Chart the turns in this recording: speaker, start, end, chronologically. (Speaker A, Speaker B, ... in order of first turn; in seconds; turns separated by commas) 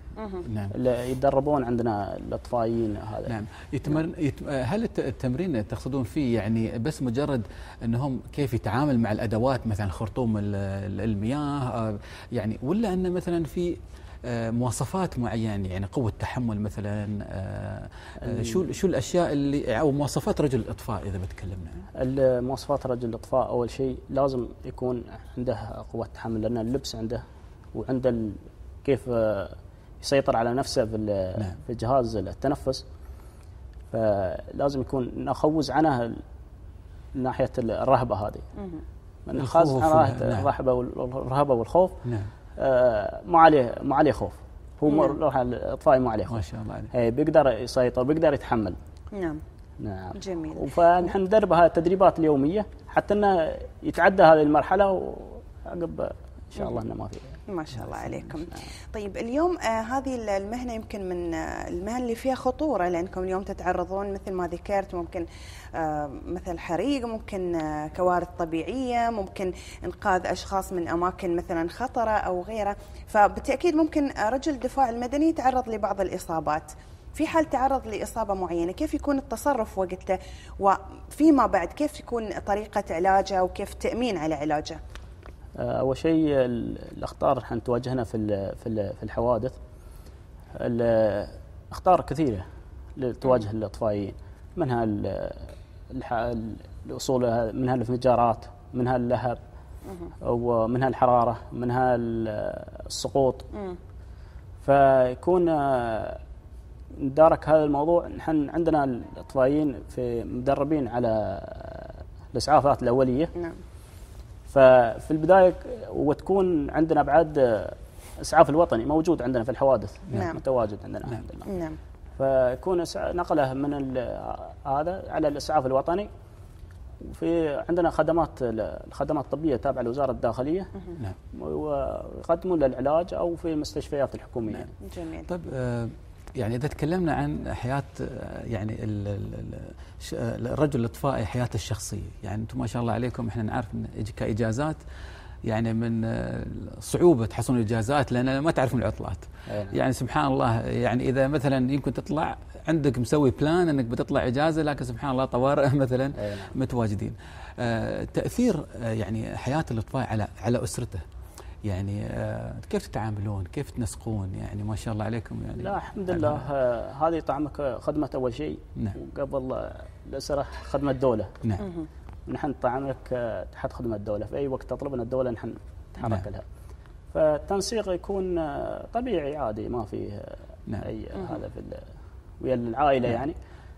Speaker A: 0.2-0.5, Speaker B: 0.5-0.7, Speaker C: 0.7-3.4, Speaker B: 3.3-21.9, Speaker C: 18.2-18.6, Speaker C: 22.0-27.2, Speaker C: 27.7-32.8, Speaker C: 33.9-36.2, Speaker C: 37.1-38.5, Speaker C: 39.3-42.0, Speaker B: 39.4-40.5, Speaker B: 42.0-42.3, Speaker C: 42.6-48.8, Speaker A: 44.9-45.2, Speaker B: 46.3-46.9, Speaker A: 49.1-49.4, Speaker C: 49.8-57.4, Speaker A: 50.1-51.1, Speaker A: 57.5-84.8, Speaker B: 57.8-58.2, Speaker C: 85.6-89.6, Speaker C: 90.5-92.4, Speaker C: 93.0-99.4, Speaker C: 100.2-103.5, Speaker C: 104.6-106.2, Speaker C: 106.9-113.3, Speaker C: 114.5-121.5, Speaker A: 120.1-120.4, Speaker A: 121.5-121.8, Speaker C: 122.2-126.1, Speaker C: 127.0-134.7, Speaker A: 134.8-135.3, Speaker B: 135.3-144.8, Speaker B: 145.4-161.0, Speaker C: 149.5-149.8, Speaker C: 156.2-156.6, Speaker B: 161.7-166.4, Speaker C: 165.6-171.4, Speaker A: 171.6-171.9, Speaker C: 172.3-176.4, Speaker B: 176.0-176.3, Speaker C: 177.1-181.9, Speaker C: 182.4-183.4